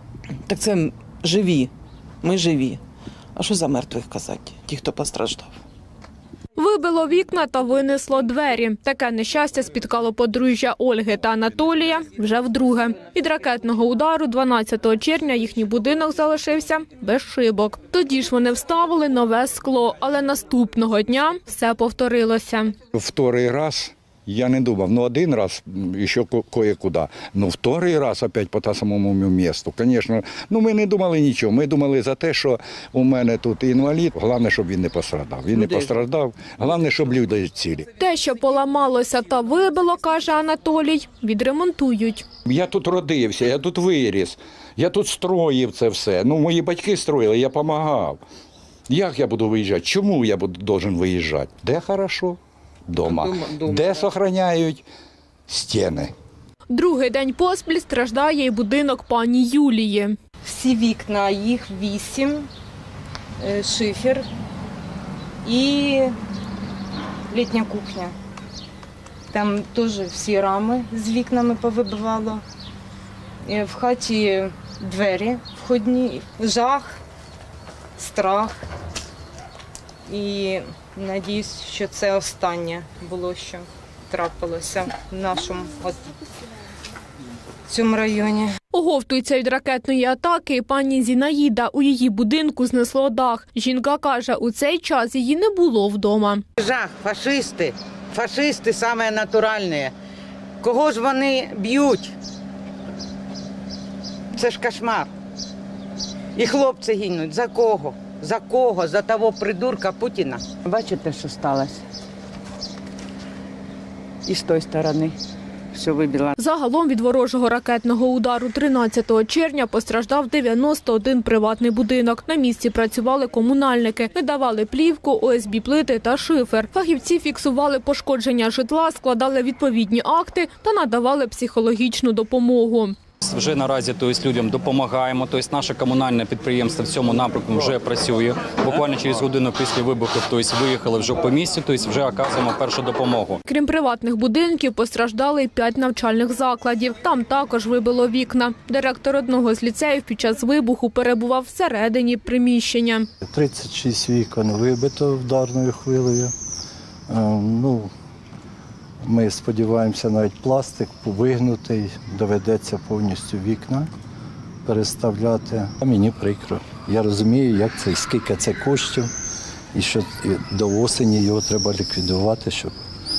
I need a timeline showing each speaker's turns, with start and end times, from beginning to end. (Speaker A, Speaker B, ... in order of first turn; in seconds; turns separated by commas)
Speaker A: 0.5-1.7, Speaker A: 2.2-2.8, Speaker A: 3.4-5.5, Speaker B: 6.5-22.7, Speaker C: 22.9-37.9, Speaker B: 38.0-42.2, Speaker C: 42.5-48.2, Speaker C: 48.9-54.8, Speaker C: 55.5-56.1, Speaker B: 56.7-60.2, Speaker D: 60.4-62.5, Speaker D: 63.4-64.2, Speaker D: 65.4-66.2, Speaker D: 67.3-68.1, Speaker D: 69.3-72.4, Speaker D: 73.5-77.0, Speaker D: 78.0-78.6, Speaker D: 80.1-86.1, Speaker D: 87.7-88.5, Speaker B: 88.7-96.4, Speaker E: 96.6-99.9, Speaker E: 100.6-102.1, Speaker E: 104.3-105.1, Speaker E: 106.3-110.4, Speaker E: 110.9-111.8, Speaker E: 114.3-115.1, Speaker E: 115.8-116.3, Speaker B: 116.4-133.0, Speaker F: 133.2-143.4, Speaker B: 143.4-153.1, Speaker G: 153.2-156.3, Speaker G: 157.1-157.9, Speaker G: 159.0-163.9, Speaker G: 164.6-169.1, Speaker G: 169.7-172.7